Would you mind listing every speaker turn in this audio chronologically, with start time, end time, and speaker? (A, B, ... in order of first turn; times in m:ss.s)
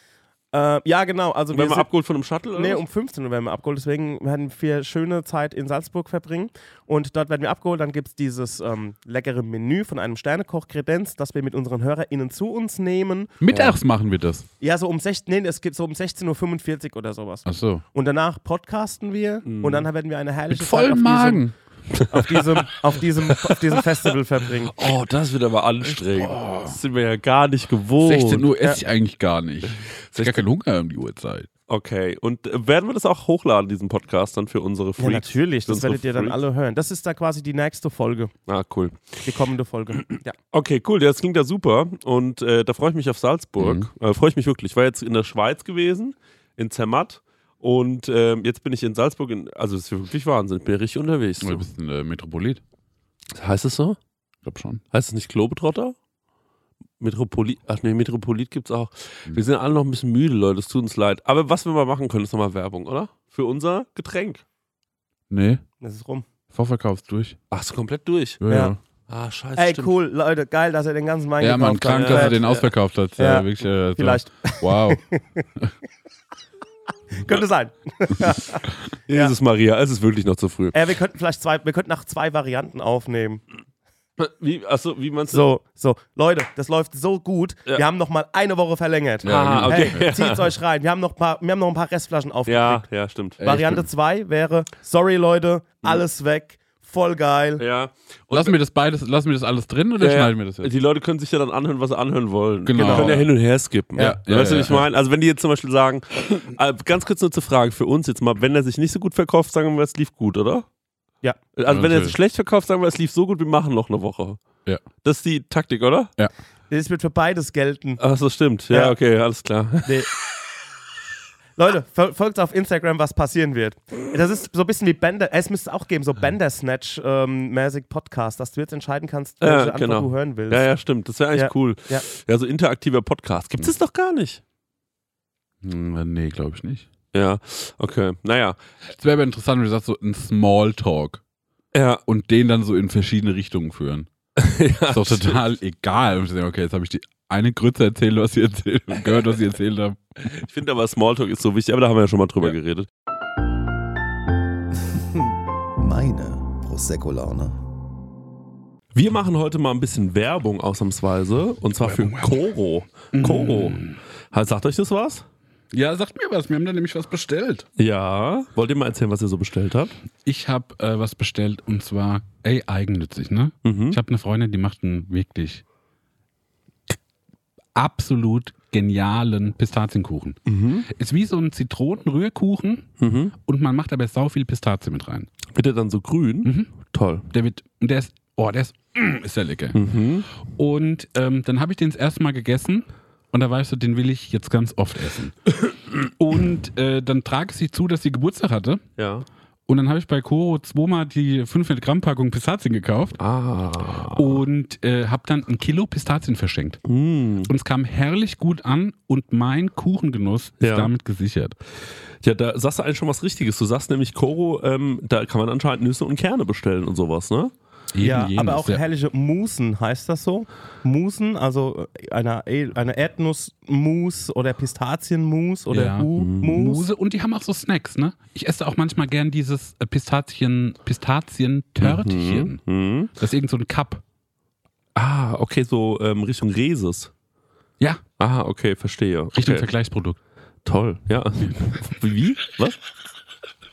0:00.5-0:01.9 A
0:01.5-0:02.8 B
0:02.5-0:13.7 A
0:13.4-0:14.4 C
0:14.6-0:21.5 A
0:17.4-0:17.8 C
0:19.4-0:19.9 B
0:20.5-0:21.6 C
0:22.0-0:22.7 B
0:22.1-0:24.8 A
0:23.3-0:23.6 B
0:24.7-0:28.5 B
0:26.1-0:26.8 C
0:28.0-0:31.5 C
0:29.8-0:30.4 B
0:31.7-0:36.4 B
0:35.0-0:38.3 A
0:38.5-0:39.3 B
0:39.2-0:40.4 A
0:40.0-0:51.6 B
0:43.6-0:43.9 C
0:51.4-0:52.6 C
0:53.4-0:54.0 B
0:54.4-0:54.8 C
0:54.9-0:56.0 B
0:57.0-1:04.4 B
1:05.3-1:05.6 C
1:05.8-1:06.2 A
1:06.5-1:07.4 C
1:07.5-1:09.9 B
1:08.4-1:08.8 C
1:08.5-1:08.8 A
1:09.6-1:12.4 A
1:11.4-1:15.0 C
1:12.1-1:12.7 B
1:13.2-1:15.4 A
1:17.2-1:19.3 A
1:19.1-1:20.8 B
1:20.7-1:23.4 A
1:24.2-1:25.4 B
1:25.3-1:32.8 A
1:29.2-1:30.0 C
1:29.2-1:30.5 B
1:32.5-1:33.8 B
1:33.4-1:37.6 A
1:37.6-1:38.6 B
1:38.3-1:40.7 C
1:40.0-1:50.6 B
1:42.6-1:43.3 C
1:42.8-1:43.2 A
1:43.9-1:44.9 C
1:43.9-1:44.2 A
1:51.5-1:54.4 B
1:51.7-1:52.1 C
1:55.0-1:56.1 B
1:56.7-1:58.0 A
1:58.0-2:00.0 B
2:01.6-2:10.7 A
2:09.4-2:14.4 B
2:11.3-2:12.0 A
2:15.6-2:16.9 C
2:17.1-2:18.6 B
2:18.9-2:21.2 C
2:21.7-2:22.0 B
2:22.0-2:24.1 C
2:24.4-2:25.4 B
2:24.9-2:30.2 C
2:30.2-2:32.9 B
2:34.9-2:37.6 D
2:38.9-2:45.2 B
2:41.8-2:42.3 C
2:43.1-2:44.0 C
2:45.7-2:47.6 C
2:47.8-2:50.0 B
2:50.2-2:55.6 C
2:53.6-2:54.0 B
2:57.7-3:00.4 C
3:00.5-3:00.9 B
3:00.9-3:05.3 C
3:03.0-3:03.3 B
3:05.5-3:07.2 B
3:06.4-3:06.7 C
3:07.3-3:09.8 C
3:09.7-3:10.3 B
3:10.4-3:18.8 C
3:19.0-3:19.2 B
3:19.7-3:23.2 C
3:23.2-3:24.4 B
3:24.1-3:26.8 C
3:26.8-3:27.5 B
3:27.4-3:31.5 C
3:30.6-3:30.9 B
3:32.2-3:37.5 B
3:37.9-3:38.8 C
3:38.0-3:46.8 A
3:45.7-3:52.6 C
3:46.2-3:46.6 B
3:51.8-3:53.1 B
3:53.2-3:54.0 C
3:55.0-3:57.1 B
3:58.2-3:59.7 B
3:59.3-4:00.2 C
4:00.6-4:02.8 B